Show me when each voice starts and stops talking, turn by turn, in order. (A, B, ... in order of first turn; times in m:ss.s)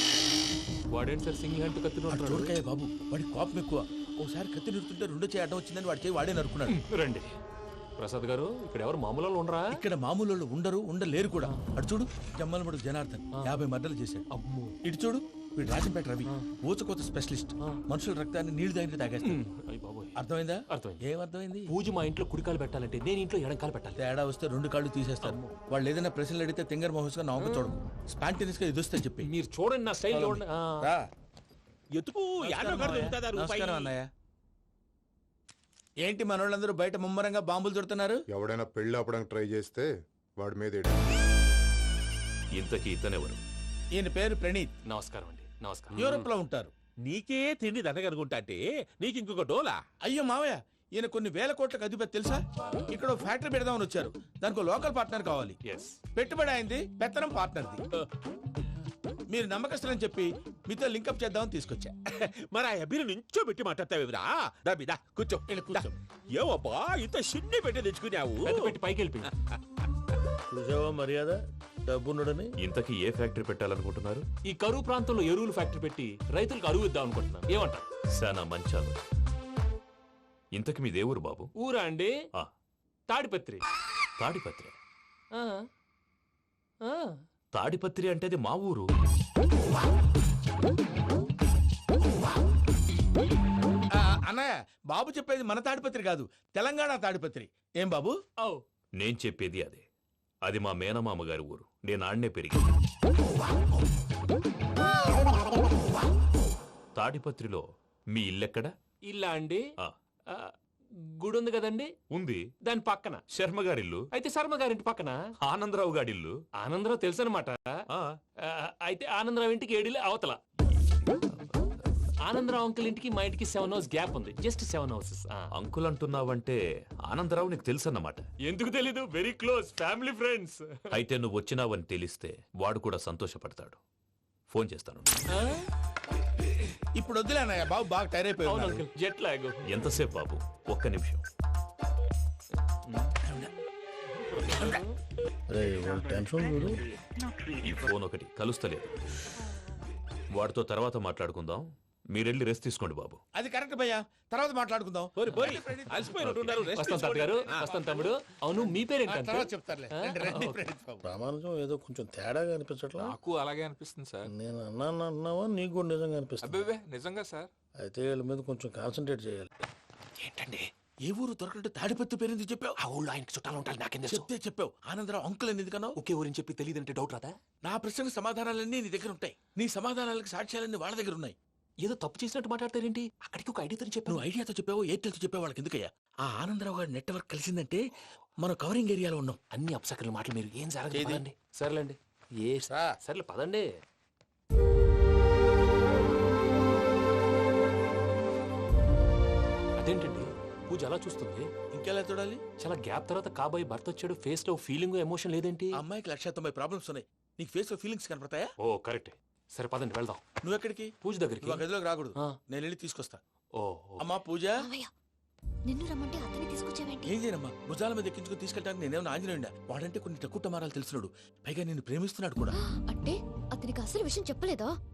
0:00.9-0:02.5 A
0:02.1-0:06.8 B
0:06.7-0:07.3 A
0:08.0-0:09.7 A
0:09.7-0:14.2 B
0:14.3-0:14.7 A
0:14.8-0:19.4 B
0:19.2-0:20.2 A
0:20.2-0:21.7 B
0:20.7-0:21.0 A
0:21.7-0:24.0 A
0:24.0-0:29.3 B
0:25.2-0:25.5 A
0:27.4-0:27.7 A
0:29.2-0:30.8 A
0:30.1-0:31.0 B
0:32.0-0:33.9 C
0:32.4-0:34.1 B
0:36.0-0:38.2 B
0:38.3-0:39.9 D
0:40.4-0:41.0 D
0:42.6-0:43.4 E
0:43.9-0:44.7 B
0:44.9-0:46.0 A
0:46.0-0:46.7 B
0:47.0-0:49.8 C
0:50.0-0:55.6 B
0:55.6-0:56.0 A
0:56.2-0:57.8 B
0:59.3-1:01.9 B
1:02.2-1:08.7 C
1:05.5-1:05.9 B
1:08.4-1:09.3 A
1:10.5-1:11.4 F
1:11.9-1:12.5 F
1:12.6-1:14.2 E
1:14.5-1:17.8 A
1:18.2-1:19.0 E
1:20.5-1:21.4 E
1:21.6-1:22.1 A
1:23.1-1:23.6 A
1:24.2-1:24.7 E
1:26.9-1:27.1 A
1:27.6-1:28.8 E
1:34.0-1:38.2 B
1:39.0-1:39.8 E
1:40.5-1:42.6 E
1:47.0-1:47.6 E
1:48.1-1:48.7 E
1:49.0-1:49.7 A
1:51.2-1:51.9 A
1:52.1-1:52.4 E
1:52.6-1:53.2 A
1:53.3-1:54.0 E
1:54.1-1:55.2 A
1:55.4-1:56.3 E
1:56.6-1:57.6 A
1:58.5-2:00.4 A
2:02.3-2:05.5 A
2:05.6-2:06.5 E
2:07.1-2:08.2 E
2:08.4-2:10.6 A
2:10.9-2:13.7 E
2:14.5-2:15.1 E
2:17.0-2:18.8 B
2:18.5-2:19.6 A
2:19.7-2:21.2 E
2:24.3-2:24.8 A
2:25.5-2:26.8 F
2:27.6-2:28.9 E
2:30.4-2:31.6 E
2:32.2-2:33.2 E
2:33.4-2:36.6 B
2:35.2-2:37.7 C
2:36.7-2:40.6 A
2:39.1-2:41.0 B
2:41.0-2:43.2 F
2:43.0-2:44.2 G
2:44.2-2:46.6 F
2:46.5-2:47.4 G
2:47.8-2:49.5 F
2:50.2-2:50.6 A
2:51.0-2:52.7 B
2:52.8-2:54.3 A
2:54.1-2:56.0 B
2:56.0-2:57.3 A
2:57.6-3:01.3 B
3:01.8-3:04.2 A
3:04.1-3:07.8 B
3:08.4-3:09.4 B
3:09.5-3:13.6 A
3:10.9-3:11.2 B
3:19.8-3:21.5 A
3:21.7-3:22.4 B
3:22.6-3:25.7 A
3:25.8-3:28.5 B
3:28.6-3:30.2 A
3:30.4-3:30.9 B
3:31.0-3:31.6 A
3:31.4-3:33.2 B
3:33.6-3:34.0 A
3:34.0-3:34.6 B
3:34.6-3:34.9 H
3:35.7-3:37.1 H
3:37.0-3:42.5 B
3:42.5-3:44.7 H